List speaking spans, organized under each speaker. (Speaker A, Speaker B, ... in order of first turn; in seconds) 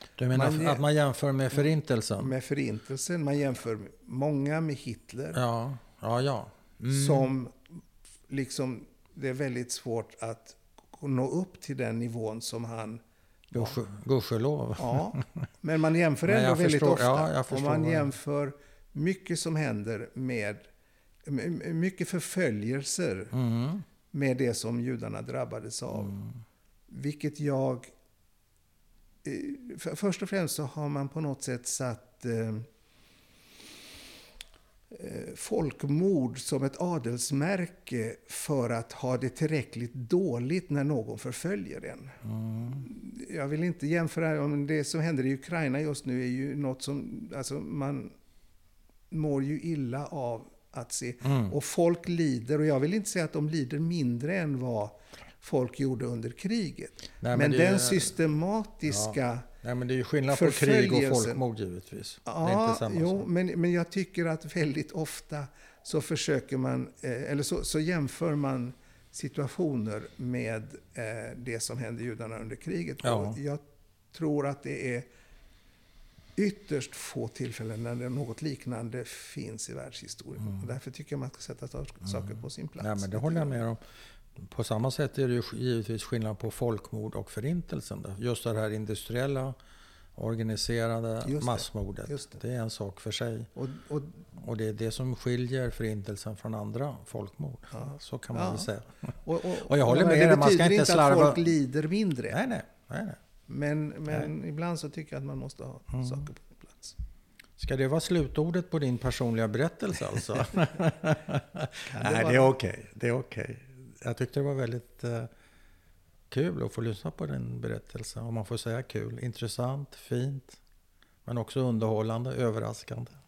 Speaker A: 0.2-2.3, 5.3-7.3, 13.5-15.5, 16.3-18.1, 23.3-23.9, 25.9-26.4, 42.2-42.9, 51.2-51.5, 57.2-58.1, 58.9-63.2, 73.0-73.4, 82.8-83.8, 84.4-89.6, 90.2-93.5, 94.4-101.5, 102.3-103.2, 105.9-106.2, 107.6-115.3, 116.3-120.6, 121.2-123.1
Speaker B: 0.3-0.8, 1.5-5.4, 6.9-7.7, 8.3-13.8, 14.8-20.7, 21.2-23.3, 24.1-26.2, 26.9-27.9, 29.2-32.7, 34.9-48.2, 49.1-59.5, 60.3-61.4, 62.3-75.1, 76.4-83.6, 91.2-92.4, 93.6-94.3, 97.7-98.7, 99.2-102.4, 103.5-107.0, 111.9-112.5